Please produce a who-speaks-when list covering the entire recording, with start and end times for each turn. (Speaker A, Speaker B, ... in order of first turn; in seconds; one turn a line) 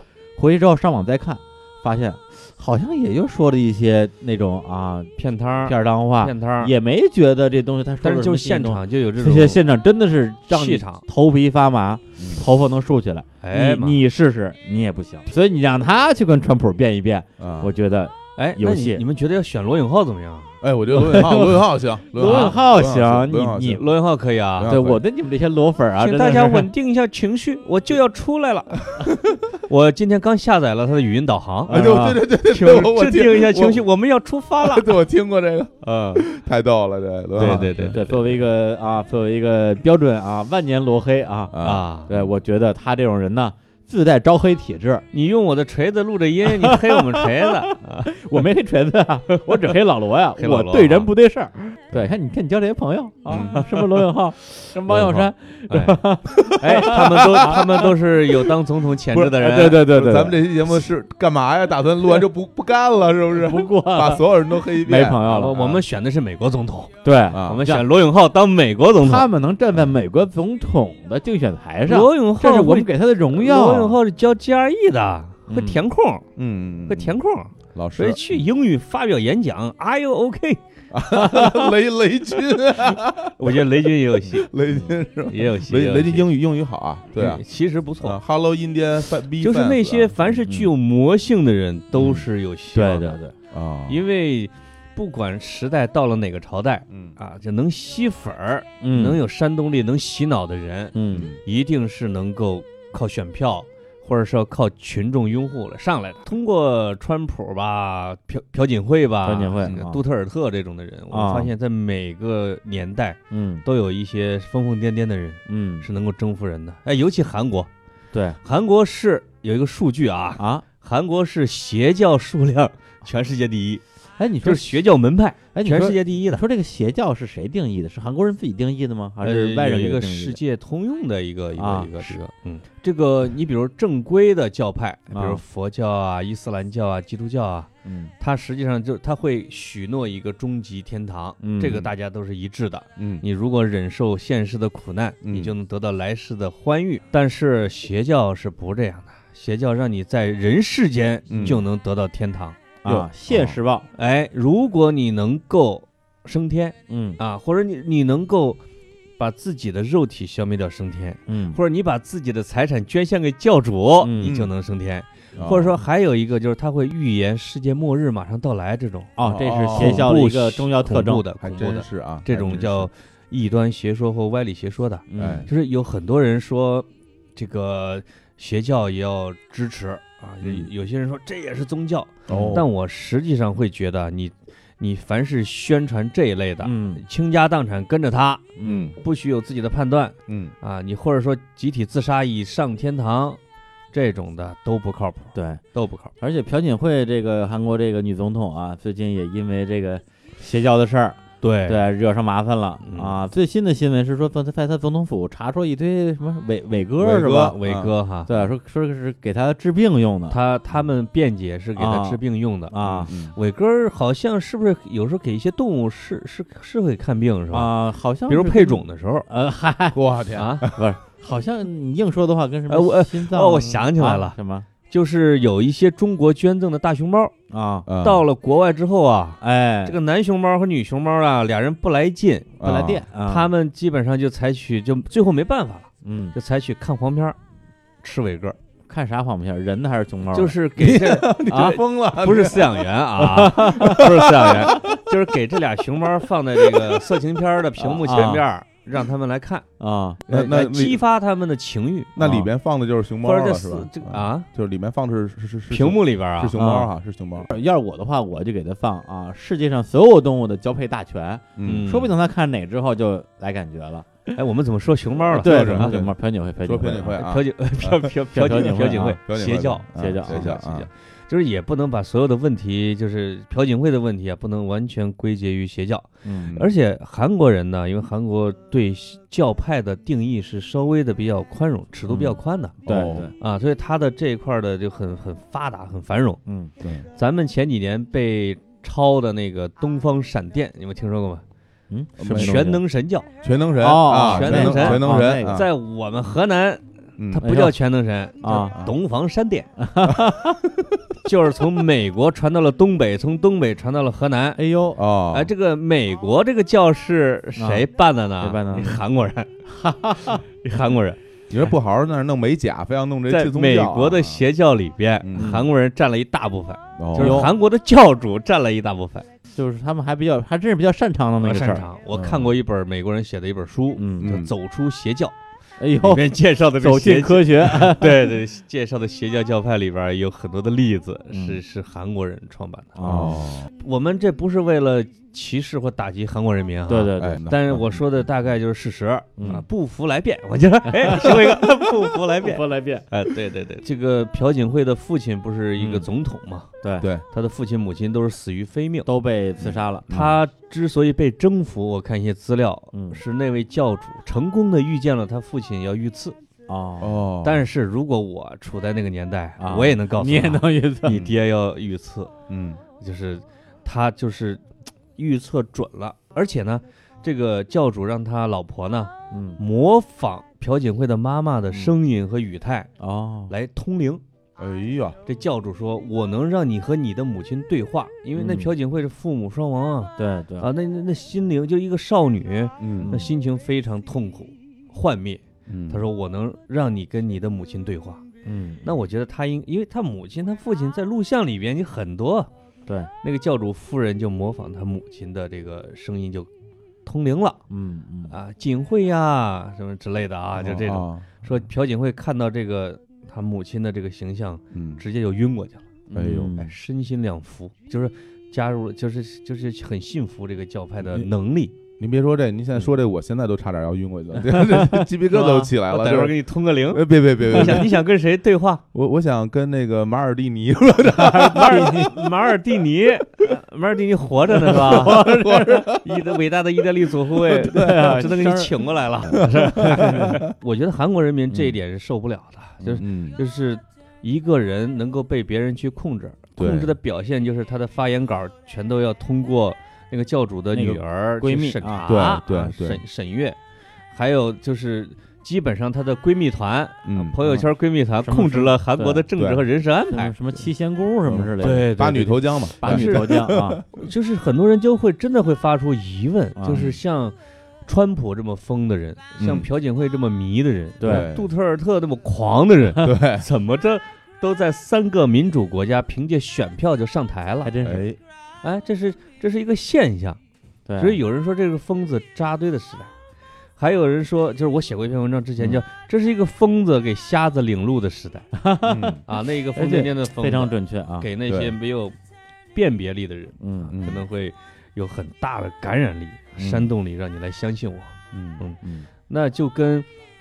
Speaker A: 0.3-5.1
Speaker B: 5.2-6.7
Speaker A: 5.6-19.0
Speaker B: 8.0-9.6
Speaker B: 10.5-11.0
Speaker C: 12.2-12.4
Speaker B: 13.4-14.0
Speaker C: 17.4-17.7
Speaker B: 18.4-20.5
Speaker C: 20.6-23.9
Speaker A: 20.9-21.6
Speaker A: 22.1-23.8
Speaker B: 22.2-22.6
Speaker B: 23.8-24.7
Speaker C: 24.6-25.0
Speaker A: 24.6-26.7
Speaker B: 26.0-29.1
Speaker C: 29.0-29.4
Speaker B: 29.7-31.9
Speaker A: 31.7-32.2
Speaker C: 31.7-33.8
Speaker B: 32.4-35.0
Speaker C: 34.6-38.0
Speaker B: 35.8-36.2
Speaker B: 37.4-38.3
Speaker A: 37.4-45.0
Speaker C: 41.5-42.3
Speaker B: 41.6-42.1
Speaker B: 45.1-48.1
Speaker A: 46.6-57.8
Speaker B: 49.3-49.8
Speaker B: 50.4-51.1
Speaker C: 53.3-53.6
Speaker B: 54.9-59.9
Speaker C: 56.4-57.9
Speaker C: 59.1-65.8
Speaker A: 59.4-60.4
Speaker A: 63.4-65.6
Speaker B: 65.3-69.3
Speaker A: 67.0-67.8
Speaker C: 67.3-67.6
Speaker A: 69.0-74.0
Speaker B: 71.9-76.3
Speaker A: 75.5-75.8
Speaker C: 76.3-77.2
Speaker B: 76.9-80.6
Speaker C: 77.7-78.2
Speaker C: 80.9-87.4
Speaker B: 83.4-84.5
Speaker B: 85.3-86.3
Speaker B: 87.1-88.2
Speaker C: 88.0-90.4
Speaker B: 89.4-93.2
Speaker A: 92.7-93.3
Speaker C: 93.5-94.0
Speaker B: 93.9-117.7
Speaker C: 96.9-97.1
Speaker A: 98.8-99.2
Speaker A: 100.9-101.3
Speaker C: 101.1-101.4
Speaker A: 109.2-110.0
Speaker A: 111.1-111.5
Speaker A: 113.3-113.6
Speaker A: 115.5-115.9
Speaker A: 118.1-118.4
Speaker B: 118.4-123.8
Speaker A: 120.4-120.6
Speaker A: 124.2-124.7
Speaker B: 124.4-126.4
Speaker A: 125.5-130.4
Speaker B: 129.2-153.0
Speaker A: 131.6-132.2
Speaker A: 135.1-135.4
Speaker A: 137.8-138.1
Speaker A: 141.4-141.9
Speaker C: 143.0-143.2
Speaker C: 145.2-145.5
Speaker C: 151.3-151.6
Speaker A: 152.8-153.8
Speaker C: 152.9-153.6
Speaker B: 153.9-158.6
Speaker A: 156.9-157.2
Speaker B: 159.2-169.1
Speaker A: 161.3-161.6
Speaker A: 164.0-164.3
Speaker C: 164.2-164.5
Speaker C: 165.3-165.8
Speaker A: 169.2-171.2
Speaker C: 169.2-170.1
Speaker B: 169.7-193.4
Speaker C: 171.4-172.9
Speaker A: 175.1-175.5
Speaker C: 175.2-175.5
Speaker C: 180.4-180.7
Speaker C: 182.3-182.7
Speaker A: 182.3-182.6
Speaker A: 186.6-187.0
Speaker A: 188.6-188.9
Speaker C: 188.6-188.9
Speaker C: 190.3-190.5
Speaker B: 193.9-196.1
Speaker A: 195.3-195.6
Speaker A: 196.2-207.6
Speaker B: 201.4-201.9
Speaker B: 202.8-203.1
Speaker C: 207.0-207.9
Speaker B: 207.3-208.3
Speaker A: 208.3-210.4
Speaker B: 210.3-217.7
Speaker A: 211.8-213.1
Speaker C: 212.8-213.3
Speaker A: 217.5-220.0
Speaker B: 218.3-219.3
Speaker C: 219.9-220.8
Speaker B: 220.3-220.7
Speaker A: 220.7-224.7
Speaker B: 222.7-224.4
Speaker B: 224.9-227.3
Speaker A: 227.5-227.8
Speaker C: 227.8-228.2
Speaker B: 228.0-232.6
Speaker A: 229.4-230.0
Speaker C: 232.6-233.0
Speaker A: 232.6-233.5
Speaker B: 233.2-237.4
Speaker A: 236.0-236.3
Speaker B: 238.0-238.6
Speaker A: 238.9-240.6
Speaker B: 240.3-249.7
Speaker C: 240.8-243.0
Speaker A: 243.2-244.0
Speaker C: 243.8-245.0
Speaker C: 246.6-247.2
Speaker A: 247.8-248.4
Speaker A: 249.8-250.2
Speaker B: 250.3-252.2
Speaker C: 250.3-251.0
Speaker C: 252.2-257.5
Speaker A: 252.2-252.5
Speaker B: 253.2-254.5
Speaker B: 255.7-256.6
Speaker A: 256.6-264.3
Speaker C: 261.6-261.9
Speaker B: 261.6-262.1
Speaker B: 264.4-265.9
Speaker C: 265.3-268.7
Speaker A: 265.3-267.2
Speaker B: 267.1-282.8
Speaker A: 268.3-269.2
Speaker C: 269.2-270.9
Speaker A: 269.9-270.5
Speaker A: 276.2-276.6
Speaker A: 282.1-282.3
Speaker C: 282.8-283.3
Speaker A: 282.9-283.3
Speaker B: 283.4-286.4
Speaker A: 286.4-286.7
Speaker C: 286.8-287.1
Speaker B: 287.1-291.4
Speaker A: 291.9-292.8
Speaker C: 292.2-292.6
Speaker B: 292.3-293.3
Speaker C: 293.4-295.7
Speaker A: 293.8-295.6
Speaker B: 294.2-299.7
Speaker C: 297.2-297.5
Speaker A: 297.4-297.7
Speaker A: 298.4-298.8
Speaker A: 299.8-300.6
Speaker C: 300.0-300.9
Speaker B: 301.2-304.6
Speaker A: 304.6-305.0
Speaker C: 304.9-305.5
Speaker B: 305.3-309.5
Speaker A: 307.6-307.9
Speaker A: 308.4-309.0
Speaker A: 309.7-310.4
Speaker B: 310.2-311.2
Speaker C: 311.5-314.4
Speaker B: 313.3-319.3
Speaker C: 315.2-315.6
Speaker A: 315.4-315.6
Speaker C: 317.0-317.5
Speaker A: 317.1-317.5
Speaker A: 319.5-321.9
Speaker B: 321.4-325.4
Speaker C: 322.1-322.6
Speaker A: 323.9-324.3
Speaker C: 324.2-324.5
Speaker A: 325.8-328.2
Speaker B: 326.0-333.0
Speaker A: 331.3-331.6
Speaker A: 332.9-333.4
Speaker C: 333.0-333.7
Speaker B: 333.8-346.7
Speaker A: 336.9-337.4
Speaker C: 337.2-338.0
Speaker A: 339.4-339.6
Speaker A: 340.9-343.0
Speaker A: 345.8-346.1
Speaker A: 346.8-347.1
Speaker B: 347.3-349.1
Speaker A: 349.1-350.1
Speaker C: 349.6-350.4
Speaker B: 350.1-356.4
Speaker A: 352.9-353.2
Speaker A: 356.7-357.2
Speaker C: 357.0-357.6
Speaker B: 357.4-362.3
Speaker A: 359.6-361.3
Speaker C: 362.5-362.8
Speaker B: 363.0-364.6
Speaker B: 365.1-372.9
Speaker A: 369.3-369.6
Speaker A: 373.0-373.5
Speaker B: 373.5-374.2
Speaker C: 374.6-375.2
Speaker B: 375.2-388.2
Speaker A: 378.4-378.7
Speaker A: 380.2-380.7
Speaker C: 382.8-383.1
Speaker A: 383.0-383.3
Speaker C: 385.7-386.1
Speaker A: 388.4-388.9
Speaker B: 388.8-392.5
Speaker B: 393.2-396.5
Speaker B: 397.1-397.6
Speaker A: 397.7-398.3
Speaker B: 398.3-406.0
Speaker C: 400.6-401.4
Speaker C: 404.7-405.0
Speaker A: 406.1-406.7
Speaker C: 406.1-406.6
Speaker B: 406.5-411.7
Speaker C: 412.0-417.9
Speaker A: 414.7-414.9
Speaker B: 415.3-418.8
Speaker C: 418.9-422.1
Speaker A: 421.2-422.1
Speaker B: 421.3-425.3
Speaker C: 424.6-426.2
Speaker A: 424.6-425.9
Speaker B: 425.9-443.6
Speaker C: 427.3-428.2
Speaker A: 427.7-430.4
Speaker C: 429.3-430.5
Speaker C: 432.8-433.4
Speaker C: 436.6-436.9
Speaker A: 440.7-442.2
Speaker C: 442.1-443.0
Speaker B: 444.1-450.3
Speaker C: 447.0-447.6
Speaker A: 448.2-449.2
Speaker C: 449.3-449.7
Speaker A: 450.1-451.9
Speaker C: 451.2-454.1
Speaker B: 451.6-453.4
Speaker A: 452.8-453.8
Speaker B: 454.0-457.3
Speaker A: 456.6-457.0
Speaker B: 457.9-467.7
Speaker C: 459.4-459.7
Speaker A: 461.0-461.3
Speaker C: 461.0-461.5
Speaker C: 463.0-463.4
Speaker A: 467.6-468.0
Speaker C: 467.8-468.2
Speaker B: 468.6-470.4
Speaker A: 470.9-471.2
Speaker B: 471.0-473.1
Speaker B: 473.8-478.5
Speaker A: 478.5-479.2
Speaker C: 478.9-479.2
Speaker B: 479.3-482.1
Speaker A: 479.7-481.3
Speaker C: 481.5-481.7
Speaker B: 482.7-490.1
Speaker A: 483.6-483.9
Speaker C: 483.9-484.2
Speaker A: 486.6-486.9
Speaker C: 488.3-488.6
Speaker A: 488.8-489.1